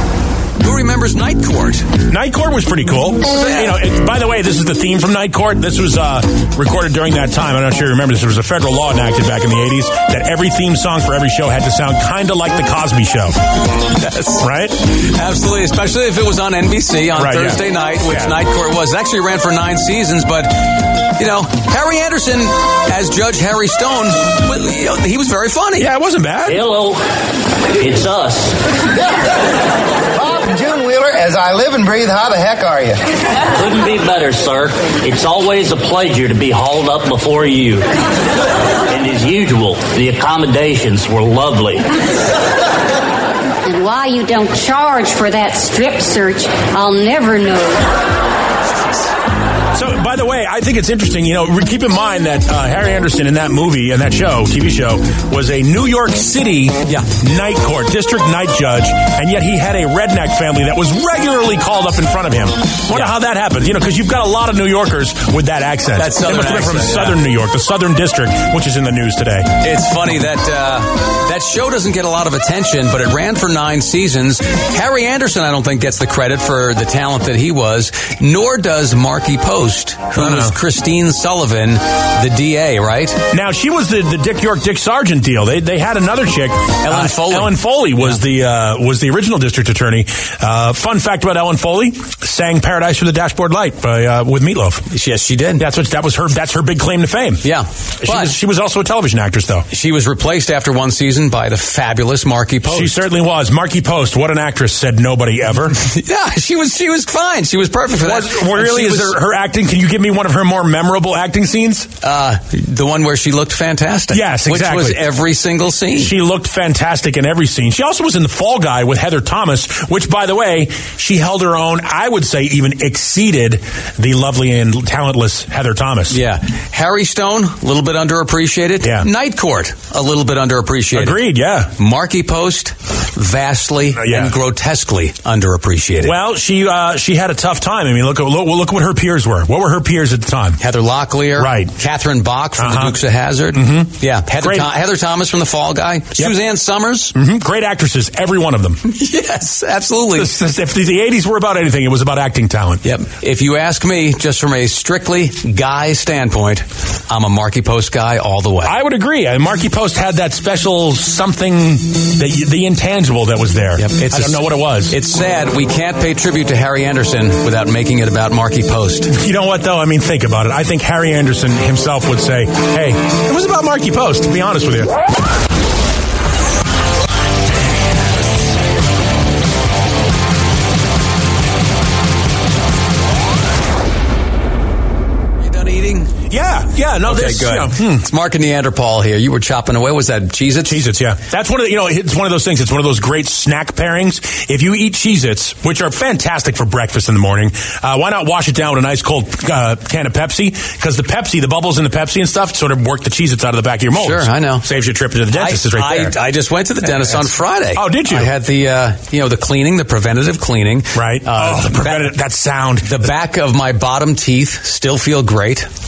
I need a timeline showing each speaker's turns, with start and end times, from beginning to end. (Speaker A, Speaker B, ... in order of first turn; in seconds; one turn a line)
Speaker A: 0.6-1.9
Speaker B: 2.1-13.3
Speaker A: 3.3-3.7
Speaker A: 13.9-25.9
Speaker B: 14.4-14.8
Speaker B: 17.1-18.4
Speaker B: 25.8-26.6
Speaker C: 26.5-27.0
Speaker C: 27.7-28.6
Speaker D: 30.1-33.0
Speaker C: 33.4-38.0
Speaker C: 38.8-41.9
Speaker E: 43.6-47.9
Speaker B: 49.7-69.5
Speaker A: 62.9-63.1
Speaker A: 66.0-67.2
Speaker A: 69.6-83.2
Speaker B: 80.1-80.5
Speaker B: 83.3-94.8
Speaker A: 86.8-88.2
Speaker A: 94.9-95.6
Speaker B: 95.6-97.4
Speaker A: 97.4-98.3
Speaker B: 98.0-99.7
Speaker A: 99.7-102.9
Speaker B: 102.7-105.8
Speaker A: 105.8-109.2
Speaker B: 108.0-111.9
Speaker A: 112.0-116.1
Speaker B: 114.1-115.0
Speaker B: 116.0-126.2
Speaker A: 126.1-131.2
Speaker B: 128.8-129.1
Speaker B: 130.9-131.7
Speaker A: 131.8-136.1
Speaker B: 133.9-134.3
Speaker B: 136.0-140.6
Speaker A: 140.6-147.1
Speaker B: 141.4-141.7
Speaker B: 142.6-143.0
Speaker B: 143.5-144.7
Speaker B: 147.1-148.8
Speaker A: 148.8-150.3
Speaker B: 150.1-152.8
Speaker A: 152.8-158.8
Speaker B: 158.6-164.9
Speaker A: 163.8-169.1
Speaker B: 169.1-174.9
Speaker A: 185.4-186.1
Speaker B: 186.3-188.0
Speaker A: 187.0-190.8
Speaker B: 190.7-206.2
Speaker A: 204.0-204.6
Speaker A: 205.3-212.1
Speaker B: 207.7-208.3
Speaker B: 210.9-213.1
Speaker A: 212.8-215.7